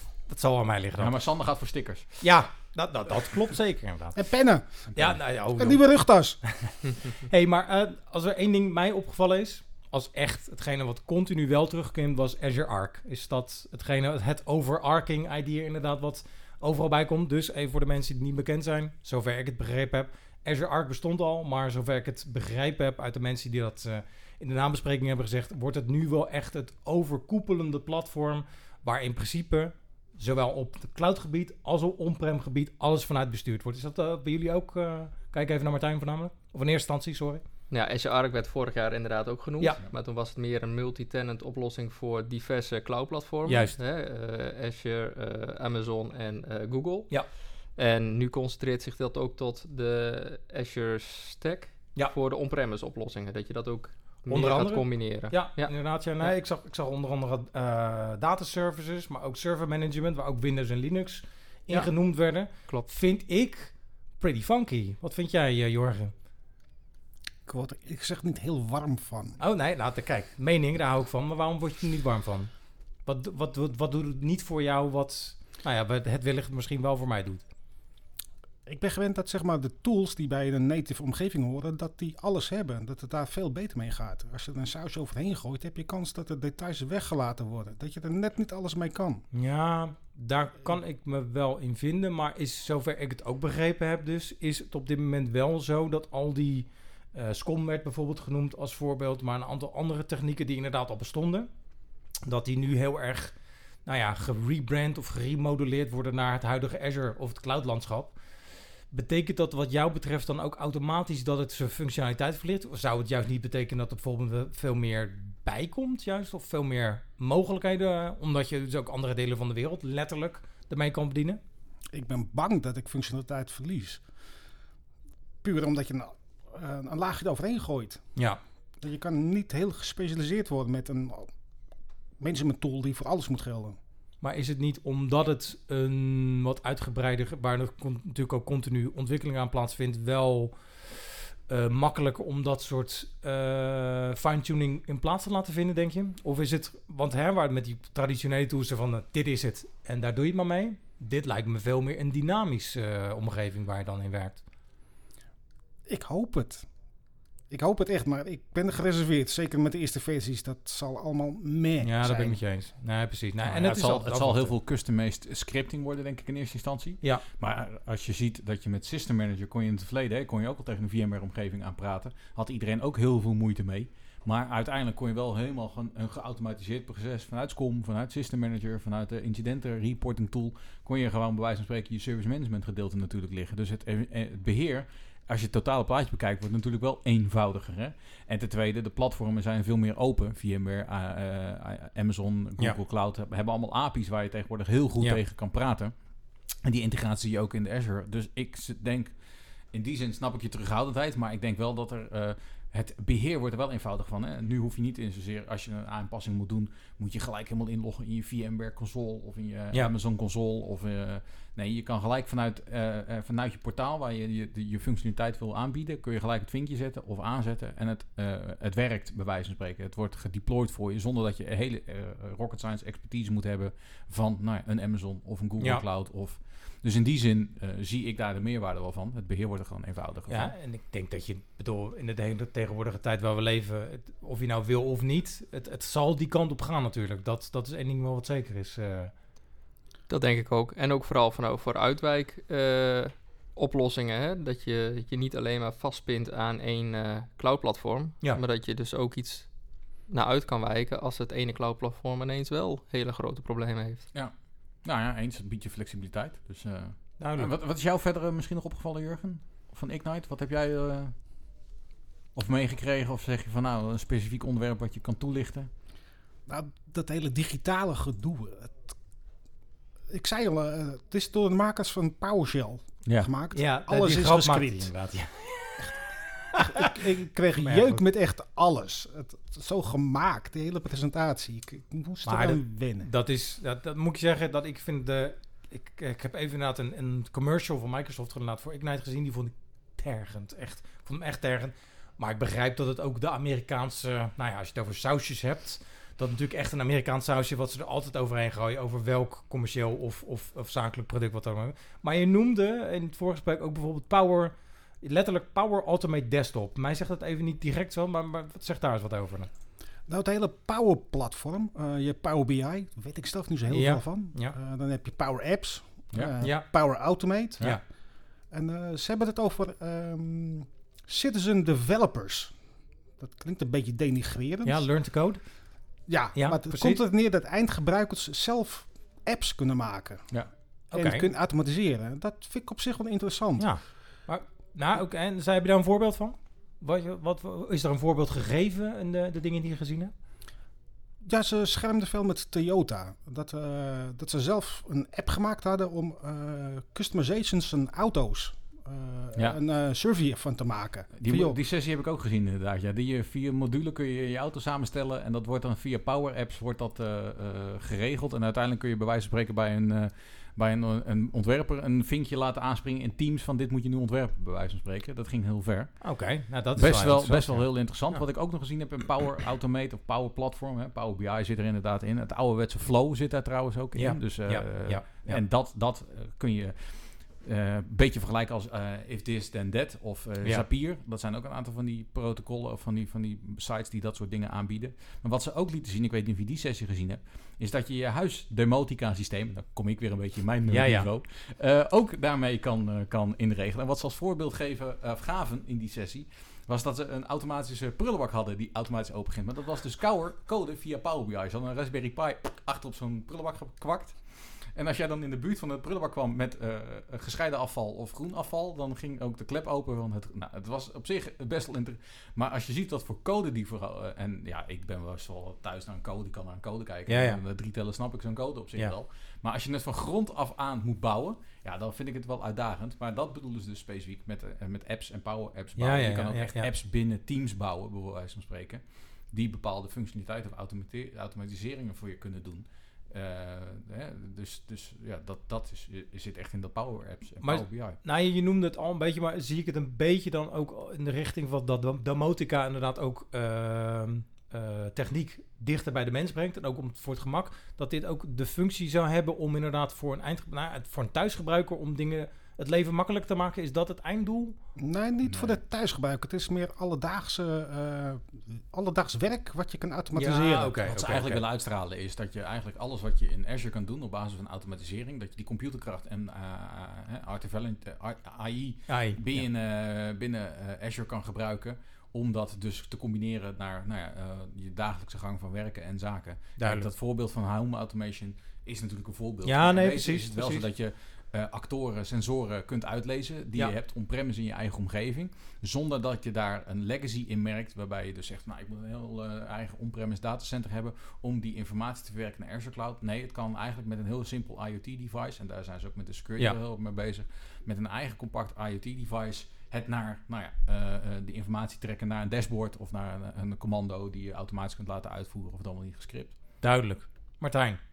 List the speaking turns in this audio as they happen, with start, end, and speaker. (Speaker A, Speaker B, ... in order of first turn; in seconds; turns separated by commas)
Speaker A: 0.3-1.1, Speaker B: 1.0-2.3, Speaker A: 2.2-4.2, Speaker C: 4.1-6.4, Speaker A: 4.9-37.4, Speaker D: 37.7-56.3, Speaker A: 43.5-43.8, Speaker A: 54.3-66.1, Speaker D: 61.7-62.9, Speaker C: 67.5-69.4, Speaker A: 69.4-72.5, Speaker A: 73.0-77.4, Speaker C: 78.7-89.2, Speaker A: 89.3-101.5, Speaker A: 102.2-103.3, Speaker A: 103.8-108.2, Speaker A: 108.9-121.4, Speaker C: 121.9-124.0, Speaker C: 125.4-128.0, Speaker C: 128.8-131.3, Speaker C: 132.2-133.8, Speaker A: 134.2-154.4, Speaker C: 155.8-156.7, Speaker C: 157.5-162.4, Speaker A: 161.8-164.5, Speaker B: 163.4-195.9, Speaker B: 196.6-199.1, Speaker B: 199.7-230.5, Speaker A: 225.6-225.8, Speaker A: 230.3-239.1, Speaker D: 240.1-249.5, Speaker D: 250.1-254.1, Speaker B: 254.8-261.1, Speaker A: 257.2-257.5, Speaker B: 262.3-265.7, Speaker C: 266.5-268.9, Speaker C: 270.1-274.9, Speaker A: 273.5-275.9, Speaker C: 276.5-283.1, Speaker A: 276.7-277.0, Speaker A: 277.6-278.0, Speaker A: 282.2-309.5, Speaker C: 310.1-317.9, Speaker A: 313.7-314.5, Speaker A: 316.4-317.8, Speaker C: 318.5-322.6, Speaker C: 323.2-324.9, Speaker A: 324.6-325.6, Speaker C: 326.1-330.4, Speaker A: 326.3-327.0, Speaker A: 330.9-331.3, Speaker C: 330.9-333.7, Speaker A: 333.6-340.1, Speaker C: 341.2-351.6, Speaker B: 351.2-438.0, Speaker A: 366.0-368.2, Speaker A: 373.9-375.4, Speaker A: 390.7-391.1, Speaker A: 417.1-417.4, Speaker A: 425.8-426.7, Speaker A: 437.4-454.6, Speaker C: 454.8-460.8, Speaker B: 455.2-455.5, Speaker A: 460.1-461.4, Speaker B: 460.8-506.4, Speaker A: 468.9-469.4, Speaker A: 476.6-476.9, Speaker A: 479.4-480.6, Speaker A: 506.6-507.8